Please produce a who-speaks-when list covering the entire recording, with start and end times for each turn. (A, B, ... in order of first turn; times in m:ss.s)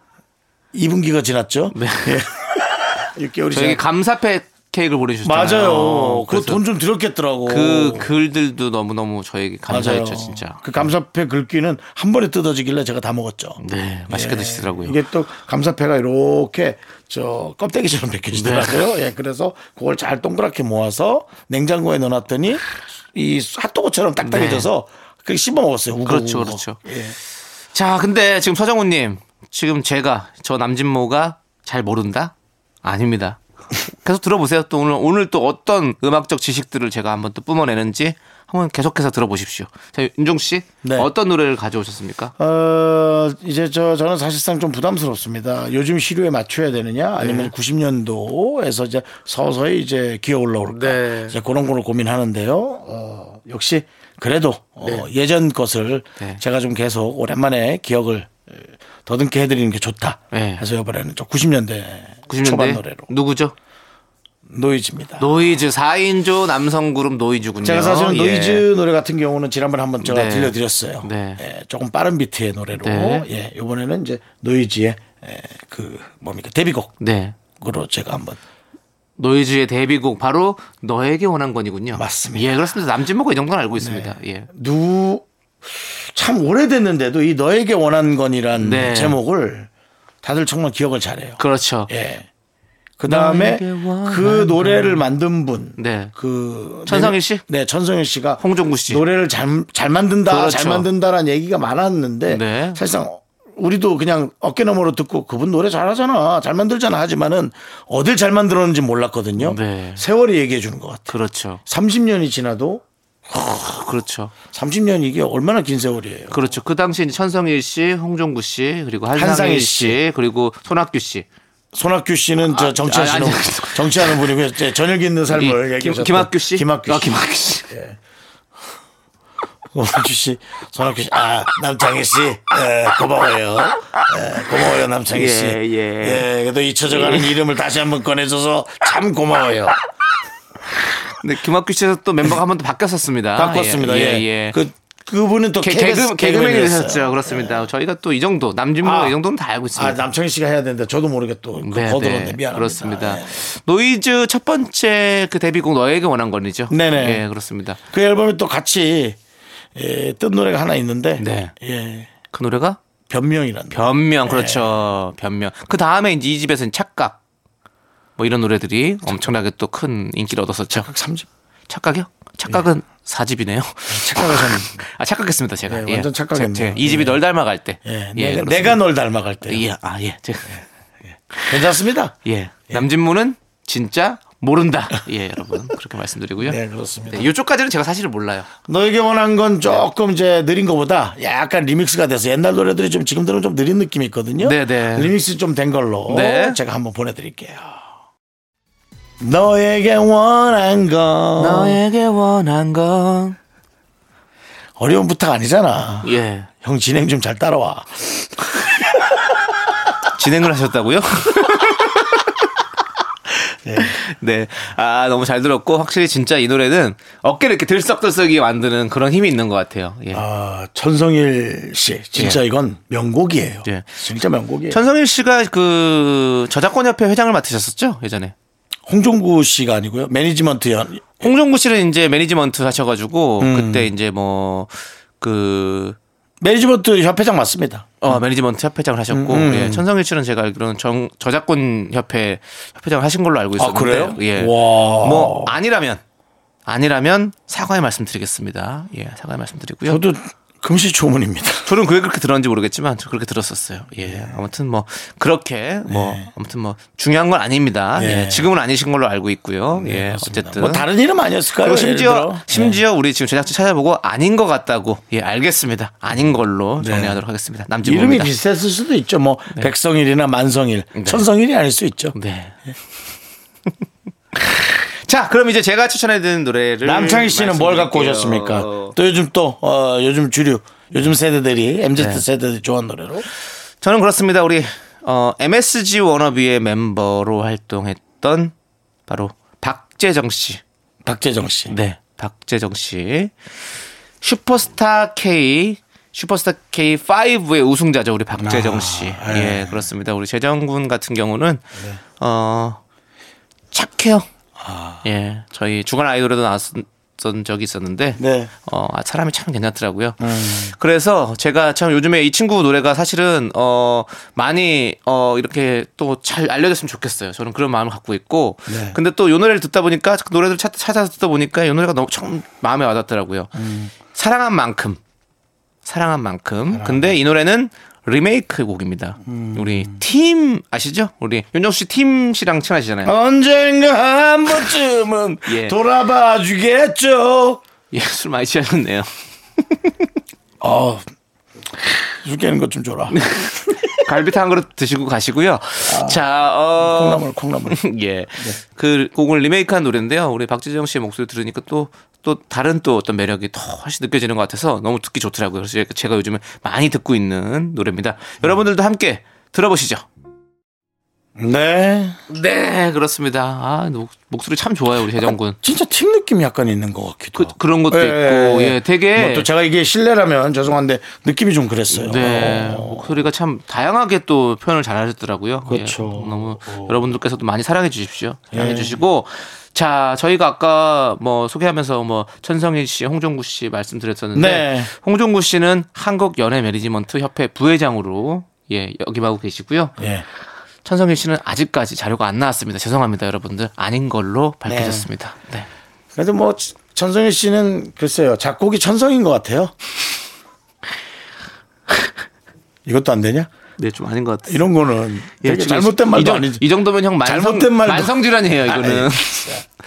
0:00.7-0:03.8 A
0:01.8-0:02.2 B
0:03.5-0:06.6 B
0:05.2-0:08.1 A
0:07.5-0:10.8 B
0:09.7-0:27.2 A
0:13.6-0:15.0 B
0:18.3-0:18.8 B
0:24.2-0:24.7 B
0:26.0-0:26.8 B
0:27.7-0:42.3 B
0:40.8-0:41.1 A
0:42.4-1:03.1 A
0:47.2-0:47.5 B
0:50.7-0:51.4 B
1:00.3-1:00.6 B
1:02.3-1:03.5 B
1:04.5-1:05.4 A
1:05.2-1:08.6 B
1:07.6-1:16.9 A
1:10.0-1:11.4 B
1:12.8-1:13.2 B
1:17.0-1:17.4 B
1:17.6-1:18.4 A
1:19.2-1:24.5 B
1:21.9-1:22.6 A
1:23.8-1:29.7 A
1:28.6-1:29.2 B
1:30.2-1:32.3 A
1:31.4-1:31.9 B
1:33.0-1:53.6 A
1:33.1-1:35.0 B
1:35.8-1:36.1 B
1:36.9-1:37.4 B
1:38.4-1:39.0 B
1:40.3-1:40.9 B
1:42.3-1:42.8 B
1:49.4-1:50.0 B
1:51.1-1:51.6 B
1:53.4-1:54.4 B
1:54.5-1:56.5 A
1:56.3-2:01.2 B
1:59.1-2:00.0 A
2:01.7-2:08.0 A
2:02.5-2:04.3 B
2:05.3-2:07.7 B
2:09.7-2:19.8 A
2:15.1-2:16.3 B
2:16.9-2:17.4 B
2:21.1-2:24.6 B
2:23.4-2:27.7 A
2:25.6-2:30.0 B
2:28.8-2:29.2 A
2:29.7-2:33.4 A
2:31.6-2:37.8 B
2:36.7-2:37.2 A
2:37.9-2:39.2 A
2:39.8-2:42.1 A
2:41.2-2:41.5 B
2:42.3-2:42.8 B
2:43.1-2:44.8 A
2:43.7-2:47.2 B
2:48.2-2:50.9 B
2:50.7-2:51.3 A
2:51.7-2:58.8 B
2:53.9-2:54.8 A
2:55.7-2:57.2 A
2:57.8-2:59.6 A
2:59.5-3:00.6 B
3:01.3-3:01.7 B
3:01.5-3:02.2 A
3:02.2-3:06.6 B
3:06.4-3:07.3 A
3:07.1-3:08.5 B
3:08.7-3:17.8 A
3:14.4-3:15.1 B
3:16.1-3:16.6 B
3:19.2-3:21.8 A
3:21.4-3:23.4 B
3:24.8-3:29.1 A
3:26.0-3:26.5 B
3:30.1-3:32.3 B
3:33.6-3:34.0 A
3:33.8-3:40.2 B
3:40.1-3:44.8 A
3:44.7-3:48.3 B
3:48.9-3:51.2 A
3:51.2-3:56.0 B
3:53.4-3:53.9 A
3:56.4-3:58.2 A
3:58.0-4:06.0 B
3:59.1-3:59.8 A
4:03.6-4:05.5 A
4:06.6-4:10.0 B
4:09.9-4:11.8 A
4:11.6-4:20.9 B
4:14.0-4:14.4 A
4:15.9-4:16.3 A
4:18.0-4:18.5 A
4:19.7-4:22.8 A
4:21.6-4:28.3 B
4:26.8-4:27.2 A
4:27.8-4:32.2 A
4:31.0-4:31.2 B
4:32.1-4:32.6 B
4:34.4-4:38.9 B
4:36.8-4:43.2 A
4:42.0-4:42.2 B
4:43.8-4:48.5 B
4:49.1-4:50.6 B
4:51.0-4:51.8 A
4:51.7-4:53.3 B
4:54.2-5:01.6 B
4:58.4-4:59.9 A
5:02.2-5:02.8 B
5:03.7-5:04.3 B
5:04.6-5:05.0 A
5:05.0-5:23.6 B
5:08.2-5:08.5 A
5:10.2-5:10.8 A
5:18.7-5:19.0 A
5:23.6-5:23.9 A
5:24.1-5:25.0 B
5:25.8-5:33.1 B
5:26.7-5:27.1 A
5:29.2-5:30.0 A
5:33.0-5:37.6 A
5:35.5-5:35.8 B
5:37.9-5:39.1 B
5:40.6-5:41.0 A
5:41.8-5:44.0 A
5:43.1-6:00.0 B
5:45.8-5:46.2 A
5:46.8-5:47.8 A
6:01.4-6:02.2 A
6:02.3-6:05.6 B
6:05.2-6:13.2 A
6:07.4-6:09.5 B
6:11.9-6:30.0 B
6:15.6-6:17.0 A
6:18.5-6:19.0 A
6:24.4-6:24.9 A
6:30.0-6:30.2 A
6:30.8-6:35.7 B
6:34.6-6:35.1 A
6:36.1-6:39.8 A
6:42.9-6:43.5 A
6:43.8-6:44.7 B
6:44.5-6:46.6 A
6:45.4-6:49.5 B
6:47.2-6:49.6 A